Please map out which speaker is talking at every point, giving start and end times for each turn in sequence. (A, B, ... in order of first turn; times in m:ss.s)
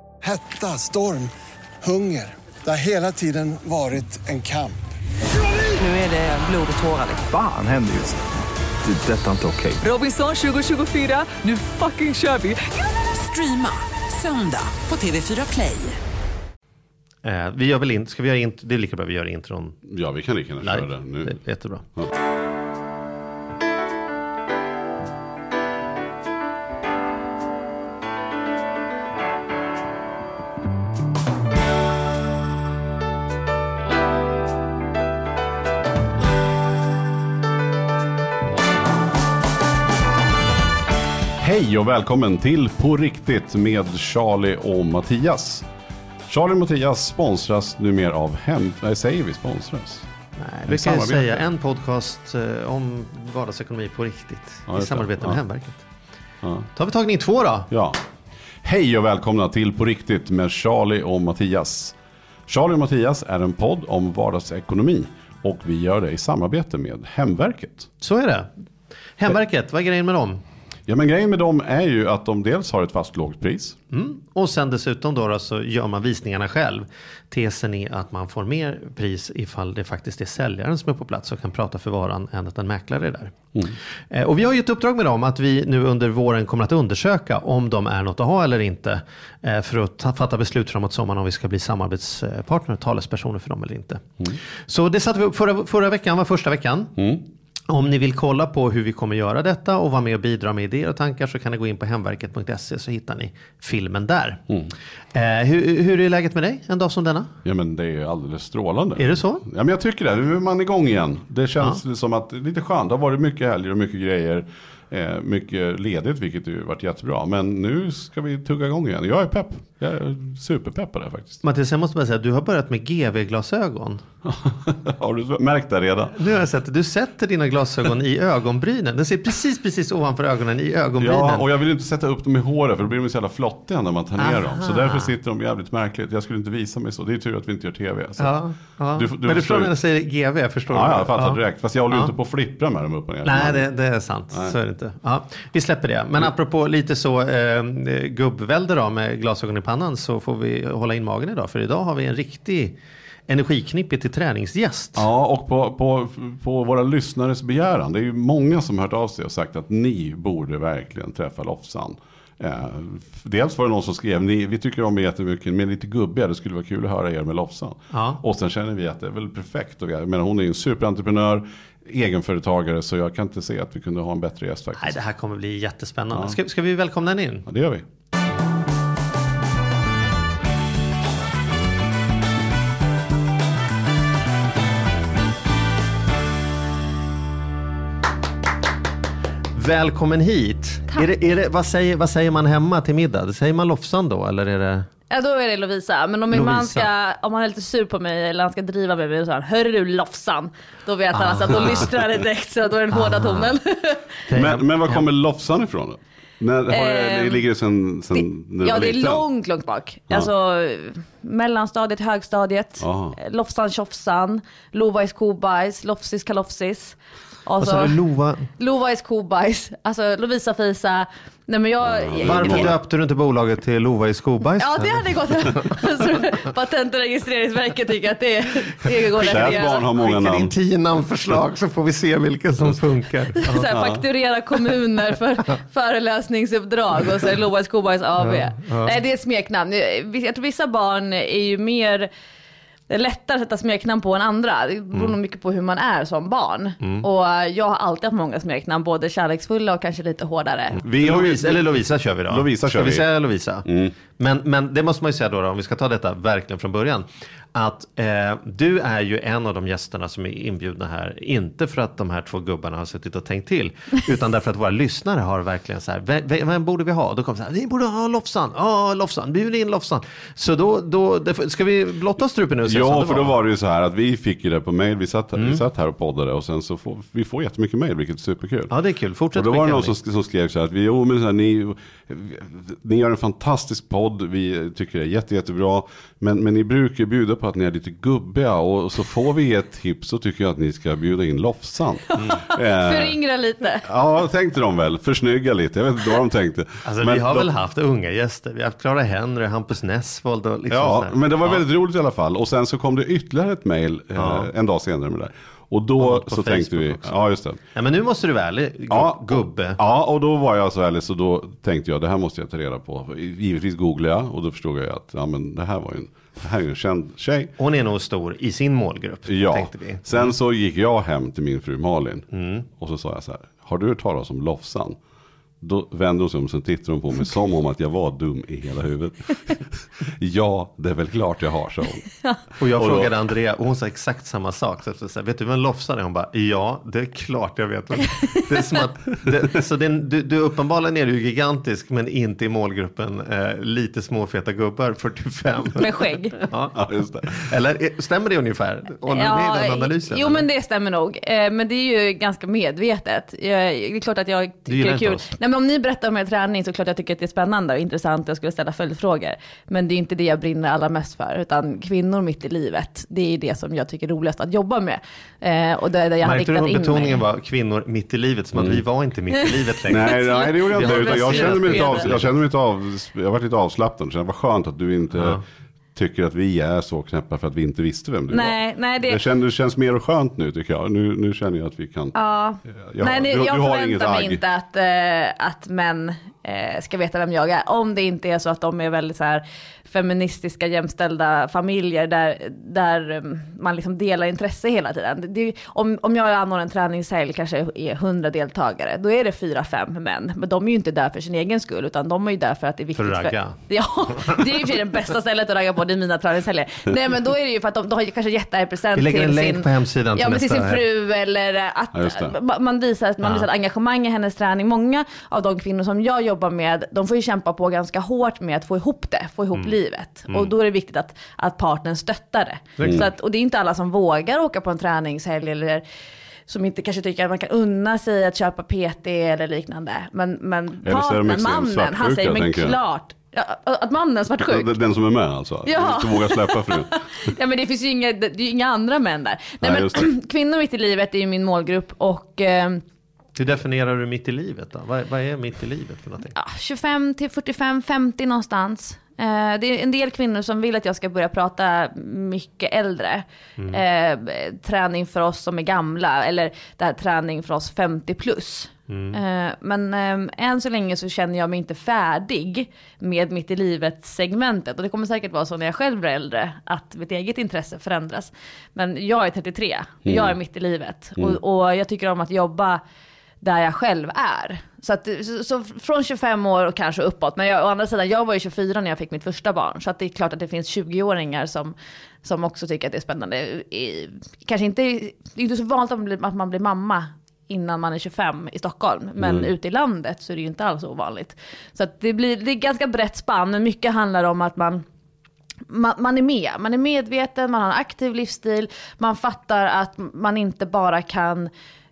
0:00.2-0:01.3 A
0:01.8-0:04.8 A
0:05.6-0:07.3 B
0:07.2-0:08.2 C
0:08.8-0:09.8 C
0:09.8-0:16.0 B
0:17.2-0:19.8 D
0:19.8-0:21.4 E
0:20.6-0:21.8 D
0:41.4-0:45.6 E
0:46.3-0:50.1 E
0:50.4-0:55.8 D
0:50.6-0:51.4 E
0:54.7-0:55.4 E
0:56.4-0:56.7 E
0:56.7-0:57.7 D
0:57.7-0:58.0 E
0:58.6-1:02.0 E
1:02.5-1:07.9 E
1:08.0-1:08.5 D
1:09.2-1:10.4 D
1:10.9-1:13.8 E
1:13.9-1:37.1 D
1:37.0-1:37.2 E
1:37.7-1:44.4 D
1:45.1-1:47.3 D
1:47.4-2:01.4 E
1:49.0-1:49.4 D
2:01.4-2:04.0 D
2:04.2-2:06.2 E
2:06.2-2:11.4 D
2:11.0-2:18.4 E
2:14.2-2:15.1 D
2:18.2-2:22.1 D
2:18.9-2:19.7 E
2:20.7-2:23.7 E
2:23.2-2:32.8 D
2:33.3-2:35.0 D
2:34.9-2:55.0 E
2:47.9-2:48.2 D
2:54.8-2:57.4 D
2:56.1-2:56.4 E
2:57.4-2:57.8 E
3:09.5-3:14.9 D
3:15.1-3:24.2 F
3:16.3-3:16.9 D
3:21.1-3:21.9 D
3:22.9-3:23.5 D
3:24.3-3:25.0 D
3:24.3-3:29.2 E
3:26.7-3:27.4 F
3:28.1-3:38.0 F
3:32.8-3:33.2 E
3:37.6-3:38.5 D
3:38.6-3:42.7 F
3:41.8-3:42.8 E
3:42.2-3:45.7 D
3:44.6-3:49.9 F
3:49.2-3:50.5 E
3:49.2-3:53.7 D
3:53.4-4:02.1 F
3:53.7-3:54.0 E
3:58.2-3:59.0 D
4:02.9-4:10.8 F
4:10.8-4:33.4 D
4:10.8-4:11.7 E
4:12.3-4:13.1 E
4:13.6-4:13.9 E
4:32.6-4:38.7 E
4:38.7-4:40.0 D
4:39.3-4:53.2 E
4:52.2-4:53.9 F
4:53.8-4:57.5 E
4:56.8-5:01.6 D
5:00.7-5:07.6 E
5:04.2-5:04.5 D
5:06.0-5:07.1 D
5:07.7-5:09.8 D
5:08.9-5:17.5 E
5:17.6-5:20.3 D
5:19.3-5:25.0 E
5:22.3-5:22.6 D
5:25.6-5:32.1 E
5:32.6-5:50.5 D
5:32.7-5:33.1 E
5:45.8-5:46.4 F
5:46.7-5:47.3 E
5:49.1-6:07.2 F
5:54.7-5:55.3 D
6:06.2-6:12.3 D
6:08.6-6:08.8 E
6:09.9-6:15.4 E
6:10.1-6:12.1 F
6:15.9-6:24.4 E
6:18.3-6:19.2 F
6:22.1-7:05.8 F
6:43.0-6:43.6 D
6:44.1-6:44.4 D
6:49.0-6:50.8 D
6:51.9-6:52.3 E
7:02.8-7:03.0 D
7:02.8-7:03.1 E
7:06.5-7:14.7 F
7:10.8-7:12.8 E
7:14.4-7:17.3 E
7:15.6-7:22.8 F
7:19.6-7:20.1 E
7:23.4-7:26.3 D
7:26.3-7:52.8 F
7:38.9-7:39.2 D
7:50.0-7:50.3 E
7:53.4-8:14.8 F
8:09.2-8:09.5 E
8:15.7-8:21.5 F